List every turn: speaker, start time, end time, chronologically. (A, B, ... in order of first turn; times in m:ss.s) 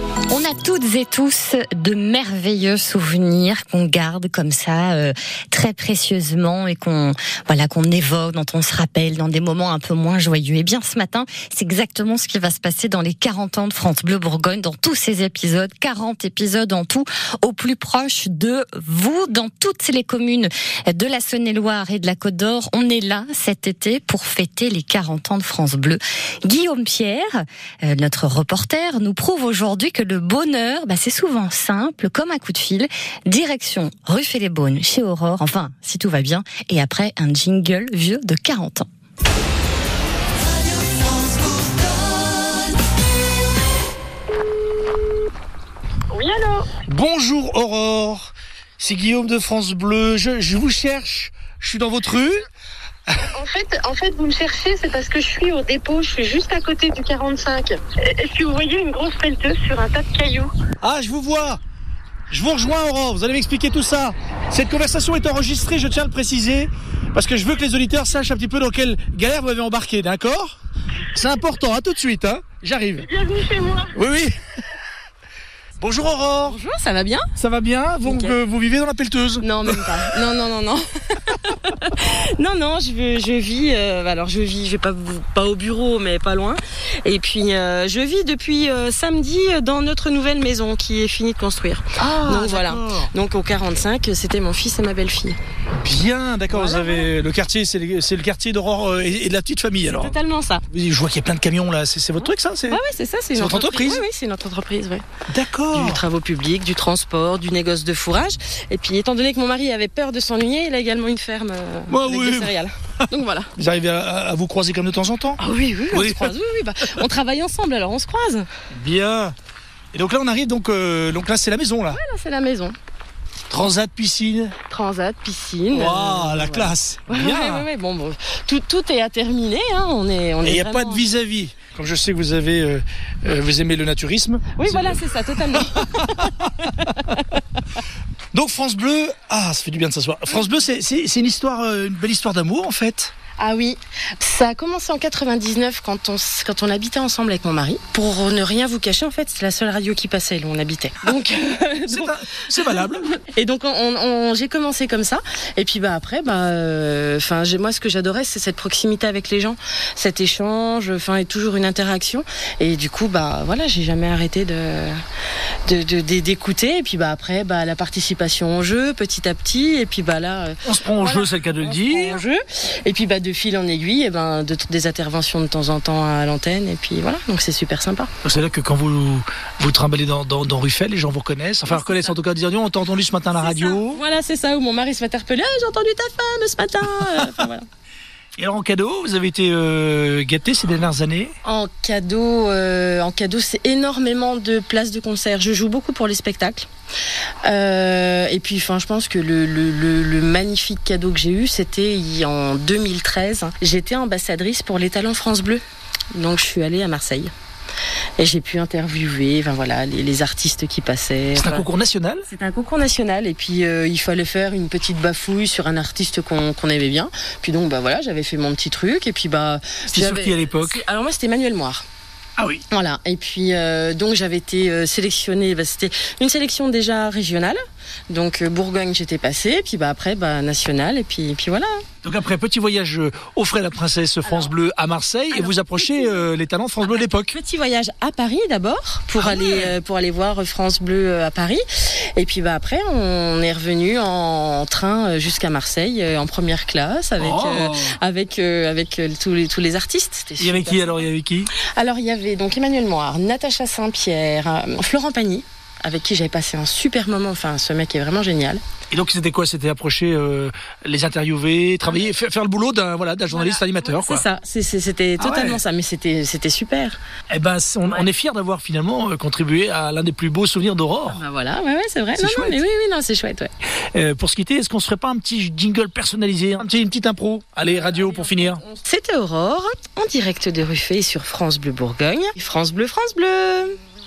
0:00.3-0:38.9 A
0:46.1-0:46.6 B
0:46.9-0:52.4 C
0:53.3-1:00.5 B
0:53.7-0:54.7 D
0:56.1-0:57.4 D
0:59.3-1:00.1 D
1:00.8-1:01.6 C
1:02.3-1:10.6 C
1:11.1-1:13.1 C
1:13.1-1:13.8 D
1:13.4-1:13.8 B
1:13.9-1:14.3 C
1:15.8-1:16.6 C
1:16.4-1:17.3 B
1:17.4-1:20.1 C
1:18.0-1:18.3 B
1:19.4-1:35.4 B
1:32.0-1:33.1 C
1:35.8-1:40.1 C
1:36.5-1:37.1 B
1:39.8-1:40.6 B
1:40.7-1:42.8 C
1:42.2-1:45.0 B
1:43.3-1:44.0 C
1:45.3-1:46.0 C
1:45.7-1:53.5 B
1:51.9-1:52.5 C
1:53.6-1:55.4 C
1:55.4-1:58.5 B
1:55.9-1:56.3 C
1:58.7-1:59.3 C
1:59.9-2:02.0 C
2:01.9-2:02.7 B
2:03.5-2:04.6 C
2:04.7-2:11.0 B
2:05.7-2:07.6 C
2:10.4-2:15.6 C
2:14.5-2:17.4 B
2:16.2-2:16.8 C
2:18.3-2:23.1 C
2:23.4-2:45.0 B
2:31.9-2:33.1 C
2:45.7-2:58.1 B
2:50.6-2:52.2 C
2:58.2-3:04.0 C
3:01.7-3:02.1 B
3:03.4-3:07.6 B
3:08.4-3:11.3 C
3:11.4-3:16.7 B
3:17.4-3:27.3 B
3:28.2-3:31.6 B
3:31.3-3:32.2 C
3:32.3-3:41.8 B
3:39.9-3:40.8 C
3:42.4-3:42.6 C
3:42.7-3:51.8 B
3:52.0-3:57.3 C
3:55.4-3:55.8 B
3:56.8-4:11.0 B
3:59.2-3:59.8 C
4:07.2-4:08.0 C
4:10.4-4:11.5 C
4:11.6-4:18.6 B
4:18.9-4:24.2 C
4:23.3-4:27.0 B
4:25.2-4:25.6 C
4:27.3-4:31.2 C
4:31.1-4:33.5 B
4:32.2-4:32.6 C
4:33.9-4:38.6 C
4:38.0-4:43.8 B